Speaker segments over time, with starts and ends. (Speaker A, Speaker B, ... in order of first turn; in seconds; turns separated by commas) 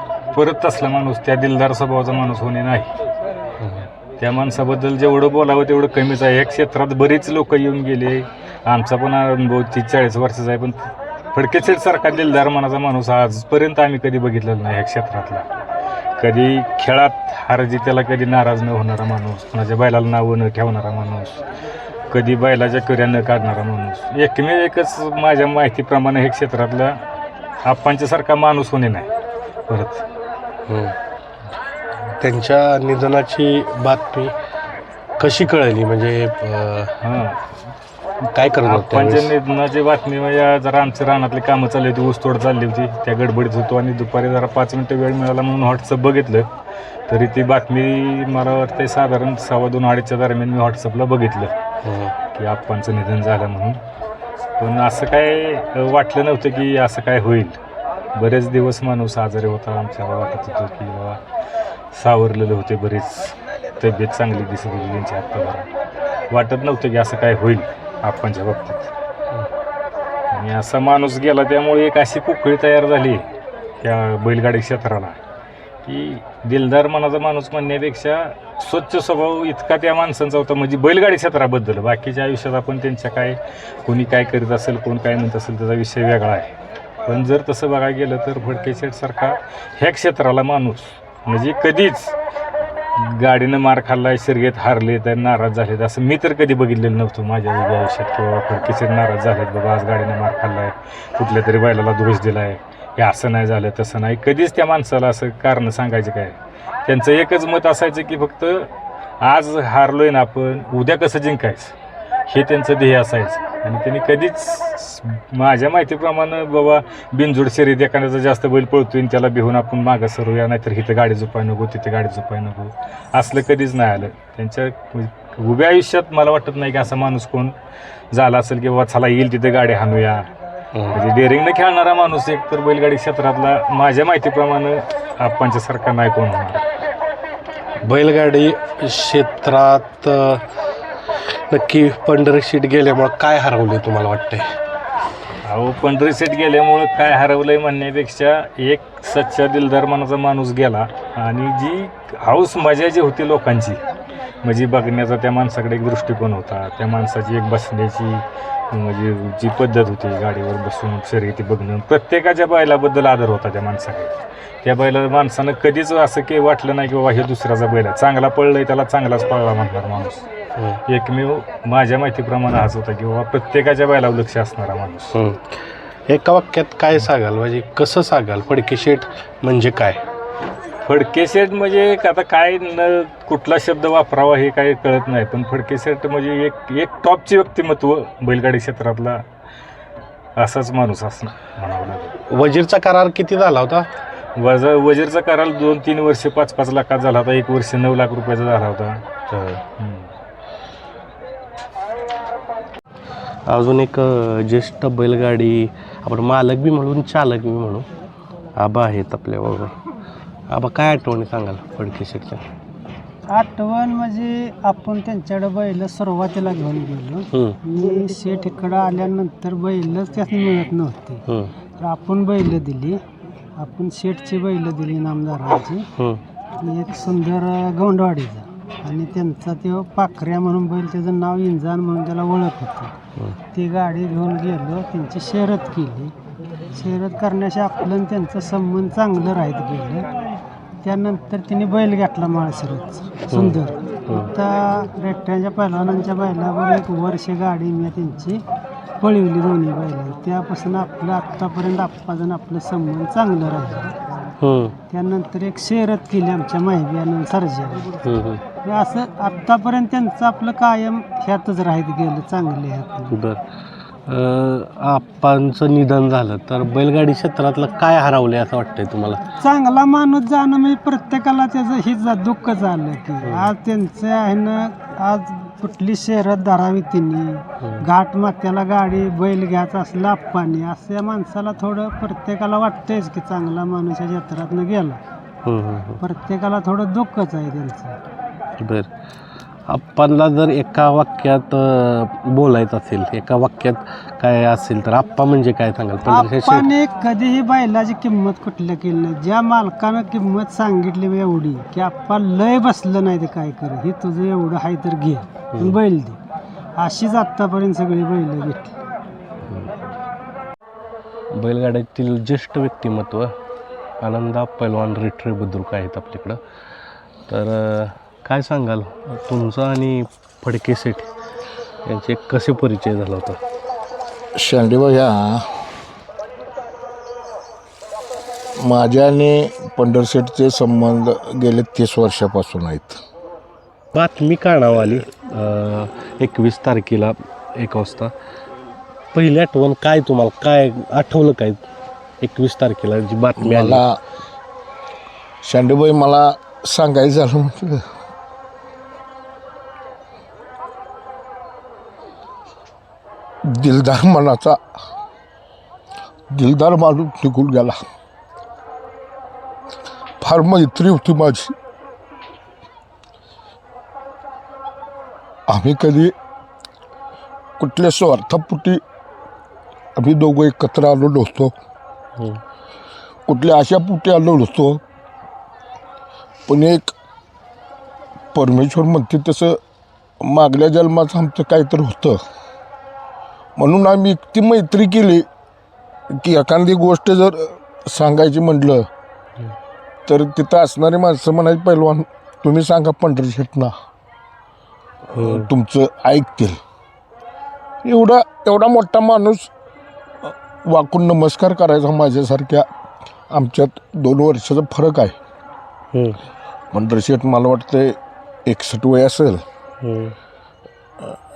Speaker A: 0.3-2.9, Speaker B: 3.6-3.9, Speaker A: 4.2-15.5, Speaker A: 16.2-21.4, Speaker A: 22.1-27.0, Speaker A: 27.6-29.1, Speaker A: 29.7-30.0, Speaker B: 30.7-30.9, Speaker B: 32.2-34.3, Speaker B: 35.2-37.0, Speaker A: 37.0-37.4, Speaker B: 38.3-39.3, Speaker A: 38.6-46.5, Speaker A: 47.1-51.5, Speaker B: 51.8-52.1, Speaker A: 52.4-53.8, Speaker A: 54.6-57.6, Speaker A: 58.1-61.2, Speaker A: 62.0-65.7, Speaker A: 66.3-68.9, Speaker A: 70.3-73.2, Speaker A: 73.8-75.2, Speaker A: 75.8-86.5, Speaker A: 87.1-92.1, Speaker A: 93.0-108.7, Speaker A: 109.2-111.7, Speaker A: 112.3-127.5, Speaker A: 128.1-130.3, Speaker B: 130.7-131.0, Speaker A: 130.9-136.7, Speaker B: 137.8-140.4, Speaker B: 141.3-144.5, Speaker A: 145.4-153.8, Speaker A: 154.4-170.2, Speaker A: 170.9-175.1, Speaker B: 175.1-175.4, Speaker B: 176.1-180.0, Speaker A: 180.8-189.2, Speaker A: 190.4-192.2, Speaker B: 192.2-193.9, Speaker A: 194.4-199.0, Speaker B: 199.3-199.6, Speaker A: 199.8-200.1, Speaker B: 203.5-207.9, Speaker B: 208.6-209.7, Speaker B: 210.5-212.4, Speaker C: 213.3-221.2, Speaker C: 221.8-223.0, Speaker C: 223.6-225.8, Speaker C: 226.6-232.9, Speaker C: 233.5-236.1, Speaker C: 236.8-240.1, Speaker C: 240.8-248.4, Speaker B: 243.3-244.3, Speaker C: 249.0-253.9, Speaker B: 254.4-254.8, Speaker C: 254.9-257.9, Speaker B: 258.1-258.4, Speaker C: 258.6-263.1, Speaker B: 263.1-263.4, Speaker B: 264.1-269.2, Speaker C: 269.4-285.0, Speaker B: 273.2-273.5, Speaker B: 285.4-286.0, Speaker C: 286.0-288.0, Speaker B: 288.6-288.9, Speaker B: 289.7-296.7, Speaker C: 296.1-306.2, Speaker C: 306.8-308.7, Speaker B: 309.5-309.8, Speaker B: 311.3-313.3, Speaker B: 314.0-316.4, Speaker B: 317.3-321.1, Speaker B: 321.9-323.4, Speaker D: 324.4-325.4, Speaker D: 328.6-333.0, Speaker B: 333.9-338.1, Speaker B: 339.1-341.6, Speaker B: 342.2-343.8, Speaker D: 343.4-344.0, Speaker D: 345.4-347.8, Speaker D: 353.5-354.6, Speaker D: 356.3-357.8, Speaker D: 360.2-361.5, Speaker D: 365.5-366.1, Speaker D: 367.6-368.8, Speaker D: 370.0-371.5, Speaker D: 373.3-374.8, Speaker D: 376.5-376.9, Speaker D: 378.3-379.6, Speaker D: 380.2-382.2, Speaker D: 383.6-385.3, Speaker D: 386.2-388.9, Speaker D: 390.1-393.7, Speaker D: 395.1-396.6, Speaker B: 395.1-395.5, Speaker D: 397.8-399.5, Speaker D: 400.2-402.7, Speaker D: 403.3-405.2, Speaker B: 405.9-406.2, Speaker D: 406.7-409.4, Speaker B: 409.8-410.1